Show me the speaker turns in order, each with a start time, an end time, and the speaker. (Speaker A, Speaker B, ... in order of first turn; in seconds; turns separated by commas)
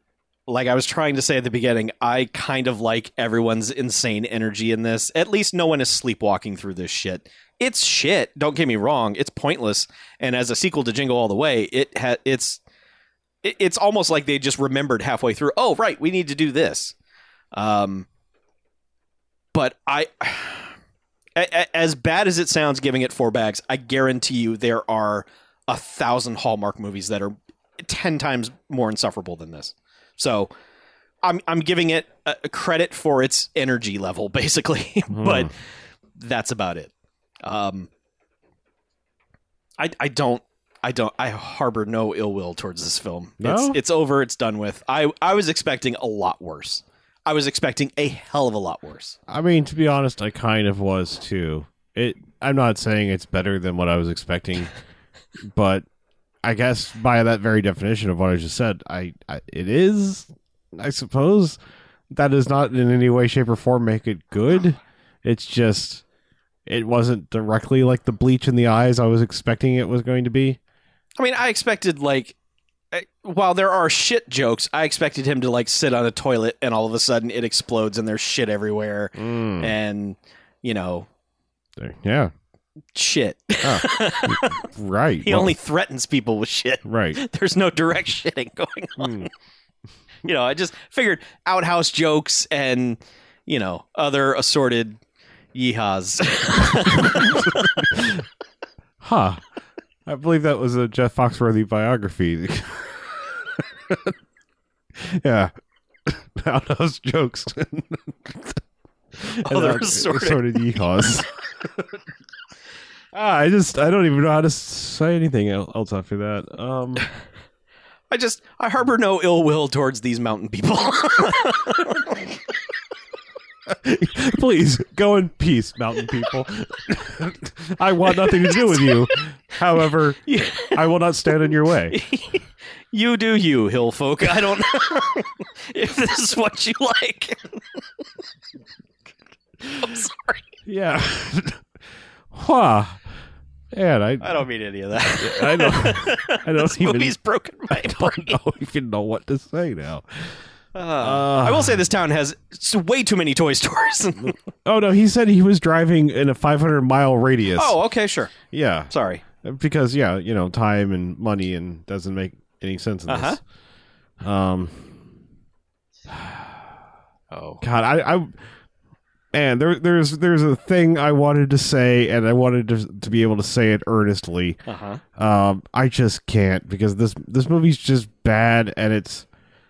Speaker A: 0.5-12.6, Speaker A: 13.4-16.9, Speaker A: 17.5-18.1, Speaker A: 19.5-20.7, Speaker A: 21.4-30.5, Speaker A: 31.2-35.5, Speaker B: 35.1-35.5, Speaker A: 36.2-36.9, Speaker A: 37.4-37.9, Speaker A: 39.8-49.2, Speaker B: 43.4-43.8, Speaker B: 49.3-54.7, Speaker B: 55.5-55.8, Speaker B: 56.4-61.6, Speaker B: 62.1-66.0, Speaker B: 66.7-70.6, Speaker A: 71.2-72.3, Speaker A: 72.9-81.1, Speaker B: 79.2-79.7, Speaker B: 81.8-82.3, Speaker A: 82.9-84.6, Speaker B: 83.6-85.5, Speaker A: 85.2-89.3, Speaker B: 86.8-87.2, Speaker B: 89.0-89.3, Speaker A: 90.2-95.0, Speaker A: 95.5-98.0, Speaker B: 96.8-98.2, Speaker B: 99.0-99.4, Speaker B: 100.0-104.1, Speaker B: 104.9-105.5, Speaker B: 106.0-108.6, Speaker B: 109.2-112.0, Speaker A: 109.4-110.7, Speaker B: 113.1-117.0, Speaker A: 118.1-122.3, Speaker B: 123.7-132.0, Speaker A: 128.1-129.0, Speaker A: 130.2-130.8, Speaker A: 131.9-137.4, Speaker A: 139.7-140.4, Speaker B: 140.7-141.6, Speaker B: 142.3-143.0, Speaker B: 143.7-144.4, Speaker A: 144.2-148.4, Speaker B: 145.1-147.1, Speaker B: 147.7-150.4, Speaker A: 150.7-154.4, Speaker B: 151.0-151.8, Speaker B: 154.6-157.8, Speaker A: 157.6-158.3, Speaker B: 158.4-163.4, Speaker A: 158.9-159.2, Speaker A: 163.1-163.4, Speaker B: 164.2-164.9, Speaker B: 166.1-166.7, Speaker A: 167.3-167.6, Speaker B: 167.6-168.3, Speaker B: 169.3-174.6, Speaker A: 174.7-175.0, Speaker B: 175.2-179.2